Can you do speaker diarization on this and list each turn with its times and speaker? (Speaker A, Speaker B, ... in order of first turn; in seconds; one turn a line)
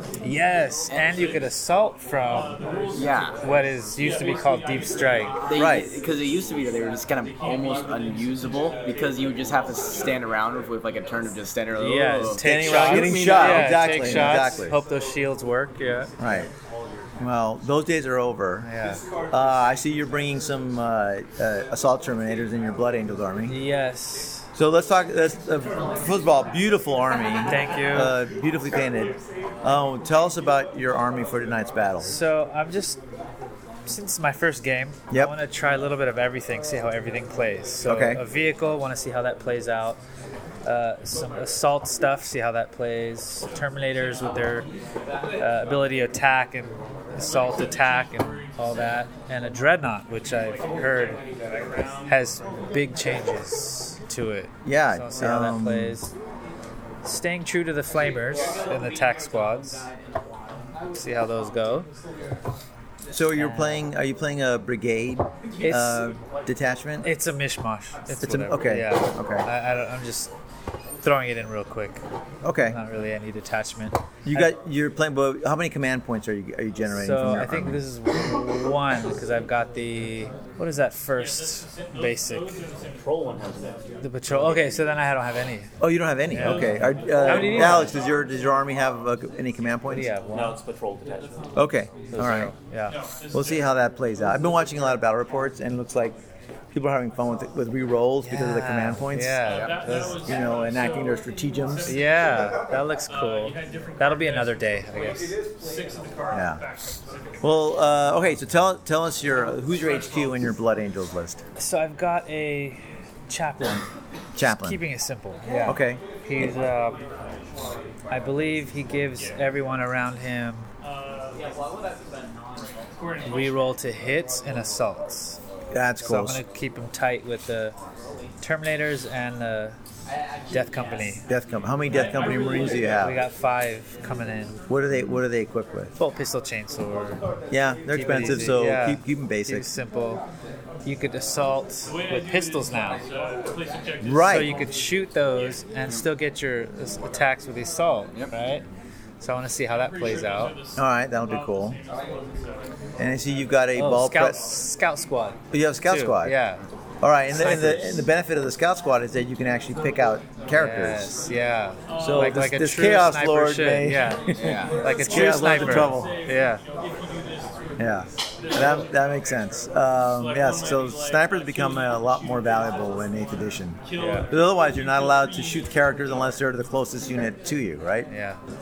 Speaker A: 0.2-2.6
Speaker B: 0.9-1.4
Speaker B: 2.9-3.4
Speaker A: 3.4-5.4
Speaker B: 5.5-13.5
Speaker C: 5.5-5.9
Speaker A: 11.8-16.1
Speaker C: 12.4-14.8
Speaker C: 16.2-16.5
Speaker C: 17.2-18.6
Speaker A: 18.6-19.0
Speaker C: 19.3-23.5
Speaker A: 23.5-24.5
Speaker C: 24.6-32.1
Speaker A: 27.5-28.1
Speaker A: 32.0-33.0
Speaker A: 33.9-40.0
Speaker C: 37.9-38.2
Speaker A: 40.6-44.7
Speaker A: 45.4-51.2
Speaker A: 52.1-56.1
Speaker C: 54.6-56.0
Speaker A: 57.0-59.9
Speaker A: 60.9-61.9
Speaker C: 63.1-67.1
Speaker A: 63.4-63.9
Speaker A: 65.6-66.0
Speaker A: 67.0-70.3
Speaker C: 68.2-69.5
Speaker A: 71.0-72.0
Speaker C: 72.4-72.8
Speaker A: 72.7-74.5
Speaker C: 74.3-77.8
Speaker A: 77.0-82.5
Speaker D: 82.9-84.8
Speaker A: 84.0-85.7
Speaker C: 85.8-90.1
Speaker A: 86.3-88.0
Speaker A: 89.9-90.6
Speaker D: 90.3-91.3
Speaker C: 91.6-92.5
Speaker A: 92.1-93.0
Speaker C: 93.3-96.2
Speaker C: 96.7-99.4
Speaker A: 98.2-100.2
Speaker B: 99.5-99.8
Speaker C: 100.3-101.9
Speaker A: 101.9-105.3
Speaker C: 106.3-106.6
Speaker C: 107.4-111.4
Speaker A: 111.6-113.8
Speaker C: 114.4-114.8
Speaker A: 114.4-117.0
Speaker C: 115.7-116.0
Speaker A: 118.1-120.7
Speaker A: 123.2-125.4
Speaker C: 125.7-126.4
Speaker A: 126.0-127.8
Speaker A: 128.4-129.8
Speaker A: 130.5-131.2
Speaker C: 131.3-133.2
Speaker A: 133.0-134.6
Speaker C: 134.7-135.9
Speaker A: 136.0-137.2
Speaker C: 137.5-139.6
Speaker A: 137.9-140.2
Speaker A: 140.8-143.0
Speaker C: 144.0-144.5
Speaker A: 144.2-148.6
Speaker A: 149.2-150.6
Speaker C: 150.8-151.8
Speaker C: 153.0-154.4
Speaker A: 153.8-156.6
Speaker C: 155.5-156.3
Speaker C: 157.0-161.1
Speaker A: 157.3-158.0
Speaker A: 160.6-166.6
Speaker C: 162.0-166.1
Speaker B: 164.3-164.9
Speaker C: 167.8-173.8
Speaker A: 174.0-174.3
Speaker C: 174.3-178.1
Speaker A: 178.1-178.4